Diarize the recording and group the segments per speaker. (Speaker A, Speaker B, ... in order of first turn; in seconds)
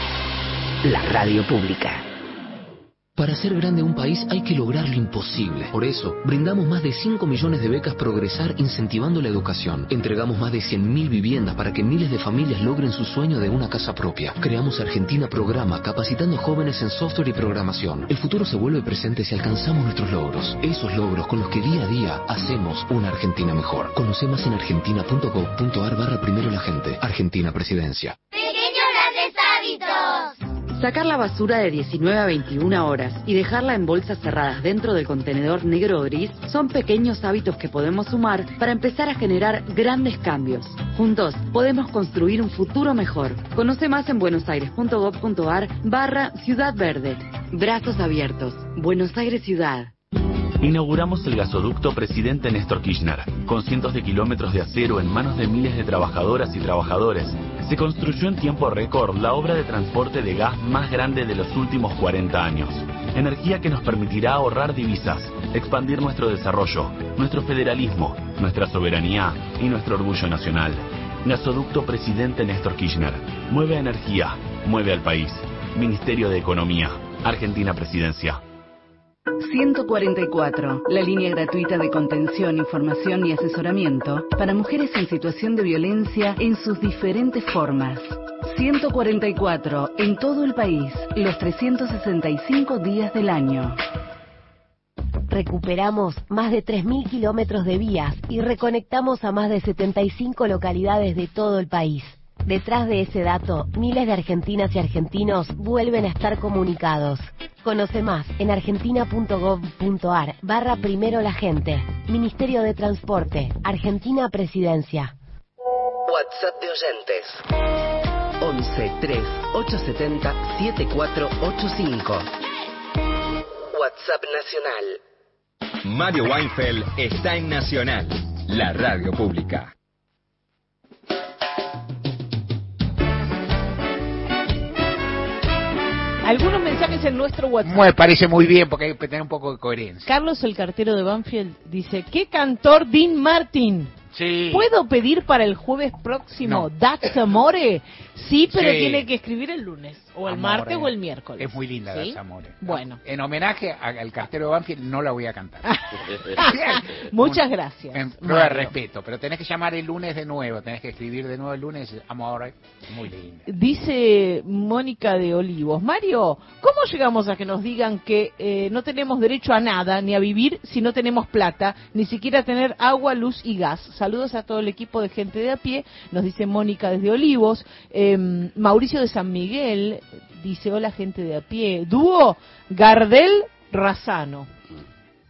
Speaker A: 0.8-2.0, 116.1-117.4, 118.4-122.3, 123.7-125.0
Speaker B: 3.2-28.2
Speaker C: 30.7-49.9
Speaker D: 50.6-78.4
Speaker E: 79.4-93.8
Speaker F: 95.3-115.1
Speaker G: 125.8-129.7
Speaker H: 136.2-137.9, 140.1-143.9, 144.5-153.0, 155.7-158.7, 163.5-184.5
Speaker I: 137.6-140.1, 144.1-144.7, 146.4-146.7, 148.5-149.1, 150.2-155.8, 156.3-163.5